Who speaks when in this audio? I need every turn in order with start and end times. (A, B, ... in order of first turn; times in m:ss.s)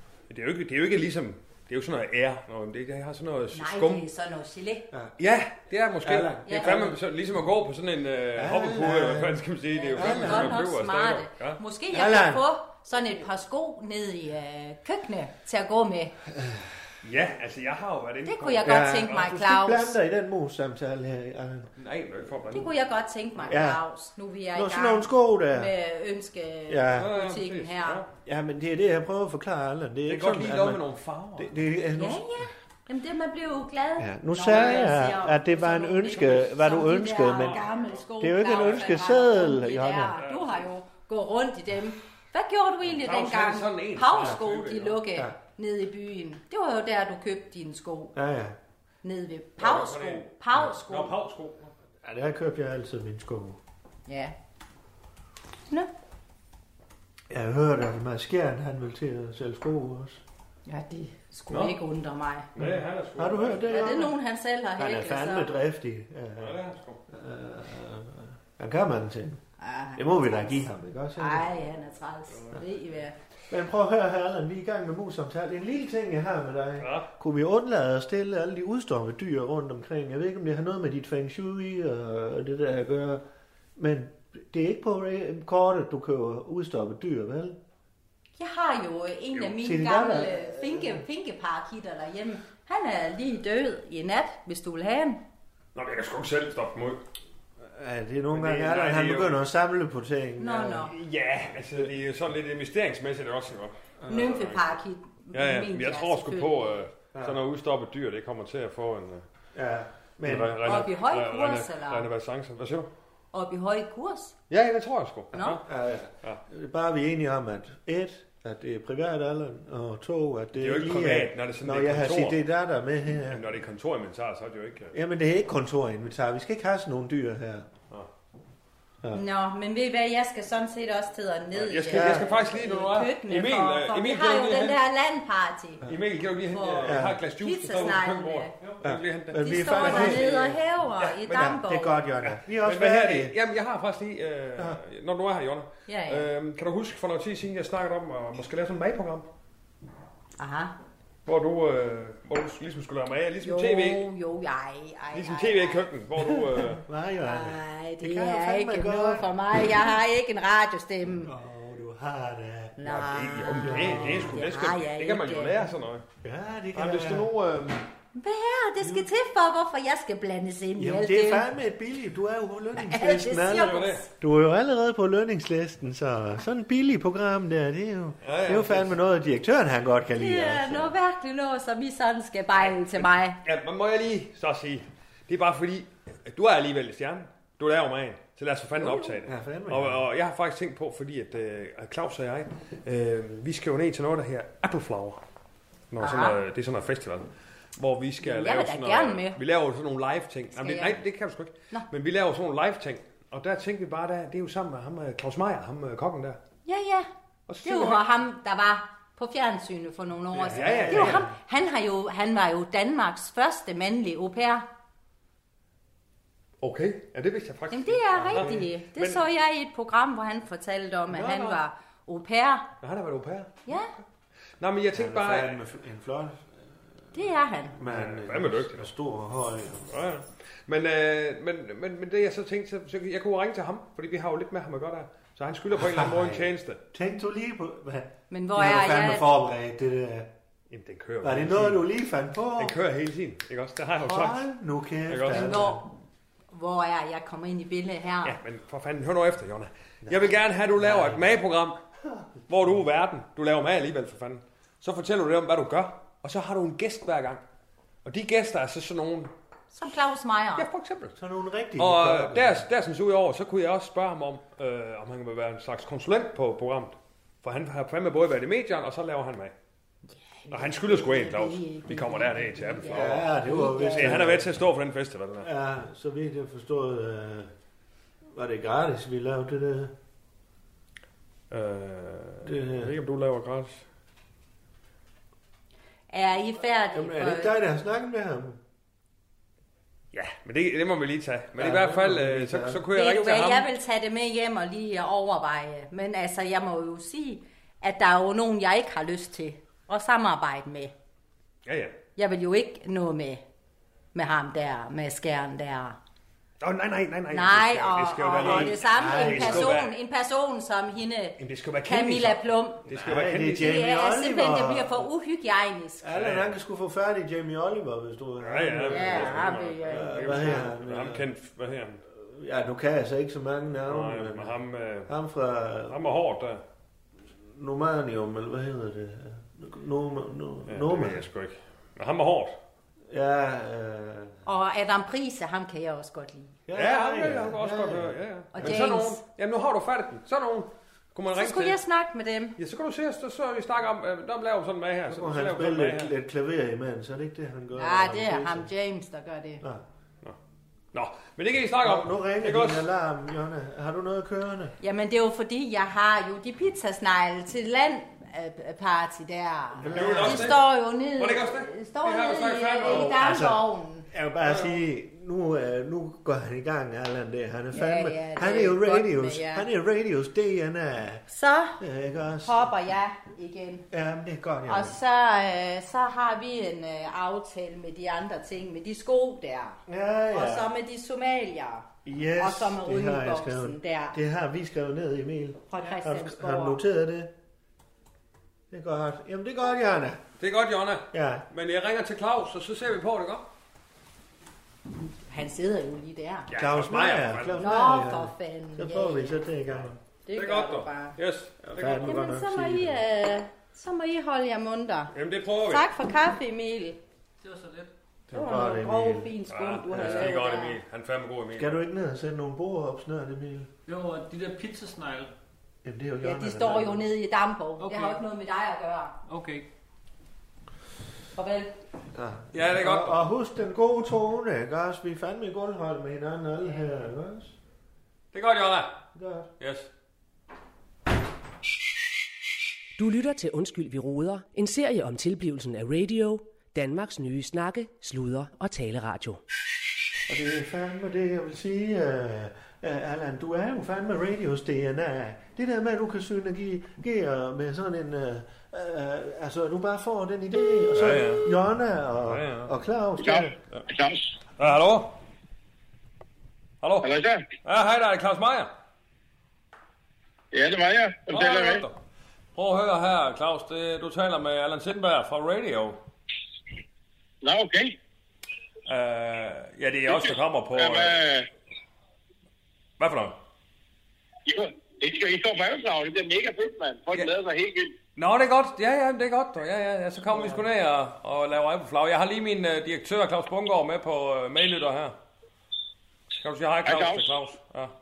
0:00.3-0:04.0 A
0:03.5-0:04.9 B
0:05.2-0:11.6 A
0:06.0-0:07.0 C
0:06.5-0:06.9 B
0:08.4-0:10.6 C
0:09.7-0:16.2 B
0:11.9-0:12.4 C
0:16.4-0:16.7 C
0:17.0-0:19.0 A
0:18.2-0:20.0 B
0:18.6-0:21.7 C
0:21.8-0:22.7 A
0:22.5-0:28.1 B
0:23.5-0:23.8 C
0:24.5-0:25.7 C
0:26.7-0:27.1 C
0:26.9-0:28.1 A
0:28.2-0:30.8 C
0:30.1-0:31.6 A
0:31.4-0:32.5 C
0:32.0-0:48.1 B
0:34.0-0:37.6 C
0:34.5-0:34.9 A
0:37.3-0:37.7 A
0:38.2-0:40.2 C
0:40.2-0:40.7 A
0:42.8-0:45.0 A
0:48.2-0:48.6 C
0:49.0-0:51.2 B
0:49.6-0:51.7 A
0:52.0-0:53.6 C
0:54.1-0:54.4 B
0:57.3-1:00.2 C
1:00.7-1:02.5 B
1:01.5-1:01.8 A
1:02.6-1:03.7 A
1:02.6-1:04.1 C
1:03.6-1:05.6 B
1:04.8-1:09.4 C
1:06.4-1:07.0 A
1:09.6-1:10.6 B
1:10.0-1:11.5 C
1:11.2-1:13.2 B
1:12.3-1:12.6 A
1:13.5-1:23.2 C
1:16.8-1:17.1 A
1:23.8-1:27.6 C
1:28.4-1:35.2 B
1:29.6-1:31.0 C
1:35.8-1:37.0 A
1:37.7-1:40.9 C
1:38.3-1:39.4 A
1:40.4-1:40.9 B
1:40.9-1:44.6 A
1:44.0-1:44.3 C
1:44.1-1:46.9 B
1:45.3-1:49.2 A
1:47.1-1:47.4 C
1:49.6-1:50.8 C
1:50.2-1:52.9 A
1:50.6-1:52.1 B
1:53.3-1:54.4 B
1:54.5-1:55.6 A
1:55.3-1:55.6 B
1:55.6-2:03.4 C
2:00.6-2:02.4 A
2:03.3-2:04.9 A
2:04.9-2:07.7 C
2:09.1-2:15.8 B
2:11.5-2:14.8 A
2:11.9-2:12.3 C
2:15.9-2:21.6 A
2:16.5-2:18.5 B
2:16.8-2:17.2 C
2:18.8-2:20.3 C
2:19.4-2:22.0 B
2:21.3-2:23.3 C
2:22.2-2:29.3 A
2:25.9-2:26.3 B
2:30.4-2:30.8 B
2:31.3-2:34.0 A
2:33.4-2:35.9 B
2:35.1-2:36.8 A
2:36.2-2:39.3 C
2:37.2-2:41.3 B
2:41.1-2:44.4 C
2:42.8-2:45.7 B
2:42.9-2:46.0 A
2:46.2-2:47.3 C
2:46.7-2:47.8 A
2:48.2-2:51.5 B
2:48.8-2:49.1 C
2:50.8-3:00.9 C
2:52.8-2:54.1 B
2:53.5-2:54.0 A
2:58.2-2:59.0 A
3:00.2-3:03.4 B
3:02.7-3:15.2 A
3:08.8-3:09.2 B
3:09.2-3:10.0 C
3:15.9-3:26.4 A
3:16.0-3:16.4 B
3:18.2-3:19.4 B
3:20.6-3:21.0 B
3:26.7-3:27.1 B
3:27.5-3:28.0 A
3:27.6-3:34.7 B
3:30.4-3:31.3 C
3:30.4-3:31.3 A
3:36.6-3:39.2 A
3:37.7-3:42.7 B
3:38.2-3:38.7 C
3:41.1-3:41.6 A
3:42.8-3:43.5 A
3:43.7-3:43.9 B
3:44.6-3:45.6 A
3:44.9-3:46.5 C
3:47.1-3:47.8 B
3:47.7-3:50.0 C
3:47.9-3:48.9 A
3:49.9-3:56.8 A
3:55.8-4:00.3 C
3:58.3-3:59.3 B
4:00.7-4:01.8 A
4:01.2-4:02.8 C
4:02.6-4:04.4 A
4:04.0-4:05.8 C
4:05.1-4:05.5 A
4:05.3-4:05.9 B
4:06.5-4:08.4 B
4:08.2-4:11.8 A
4:10.8-4:11.3 C
4:12.5-4:17.4 A
4:18.0-4:19.3 A
4:19.7-4:20.7 B
4:20.6-4:21.2 A
4:21.2-4:22.6 C
4:21.8-4:29.5 A
4:30.3-4:34.3 B
4:30.5-4:35.5 A
4:32.9-4:34.5 C
4:35.4-4:37.5 C
4:38.4-4:39.9 C
4:41.5-4:43.8 A
4:42.4-4:42.9 C
4:46.1-4:47.5 B
4:46.9-4:48.6 C
4:50.1-4:53.7 A
4:51.6-4:52.8 C
4:52.9-5:00.9 B
5:01.6-5:02.0 A
5:02.2-5:03.4 B
5:04.1-5:06.0 B
5:06.6-5:09.9 A
5:07.3-5:12.8 B
5:08.4-5:09.8 C
5:11.4-5:13.8 A
5:12.9-5:15.1 C
5:13.6-5:16.1 B
5:16.0-5:21.3 C
5:16.1-5:16.6 A
5:18.4-5:22.0 A
5:18.9-5:20.6 B
5:22.1-5:24.5 C
5:23.9-5:25.1 A
5:25.1-5:26.0 C
5:25.9-5:26.6 A
5:27.4-5:31.2 C
5:30.7-5:32.6 A
5:33.1-5:34.4 C
5:34.4-5:36.6 B
5:36.7-5:38.9 C
5:36.8-5:41.8 A
5:38.5-5:39.2 B
5:41.3-5:42.6 B
5:42.6-5:46.1 A
5:45.1-5:48.7 C
5:47.8-5:49.6 B
5:50.9-5:52.9 A
5:51.8-5:54.8 C
5:54.8-6:04.1 B
5:59.8-6:00.6 C
5:59.9-6:03.2 A
6:02.8-6:11.2 C
6:04.4-6:04.8 A
6:07.7-6:09.7 B
6:11.3-6:11.8 B
6:11.8-6:12.7 C
6:12.4-6:13.9 B
6:13.9-6:15.0 C
6:14.7-6:19.8 B
6:19.9-6:20.7 C
6:20.3-6:24.2 B
6:22.0-6:27.3 C
6:25.7-6:26.8 B
6:28.7-6:30.2 C
6:30.4-6:33.5 A
6:31.1-6:31.5 C
6:35.2-6:36.5 B
6:36.5-6:37.7 A
6:36.6-6:40.0 C
6:37.6-6:39.4 B
6:39.7-6:42.1 A
6:40.3-6:41.2 B
6:41.6-6:43.0 C
6:42.0-6:47.0 B
6:45.1-6:45.9 A
6:47.4-6:47.9 D
6:48.3-6:49.3 C
6:48.3-6:50.8 B
6:49.5-6:51.8 A
6:50.0-6:50.3 C
6:51.6-6:53.7 C
6:53.9-6:55.3 D
6:55.8-6:57.0 C
6:56.2-6:59.2 B
6:57.8-6:58.2 D
6:59.3-6:59.6 D
7:01.4-7:01.8 B
7:02.2-7:07.6 C
7:02.5-7:03.3 A
7:08.3-7:09.0 A
7:09.2-7:09.5 C
7:09.6-7:09.9 A
7:13.0-7:19.4 E
7:20.3-7:33.6 C
7:31.0-7:31.5 A
7:32.3-7:32.7 A
7:33.2-7:34.4 F
7:34.6-7:35.2 A
7:36.8-7:38.7 A
7:37.0-7:37.5 F
7:40.5-7:41.8 F
7:41.3-7:42.0 A
7:42.6-7:46.0 A
7:47.4-7:48.0 F
7:48.9-7:51.2 A
7:50.1-7:51.5 F
7:53.0-7:53.4 A
7:54.5-7:58.0 F
7:58.2-8:05.2 A
8:00.3-8:00.6 C
8:06.4-8:07.9 A
8:06.8-8:07.3 F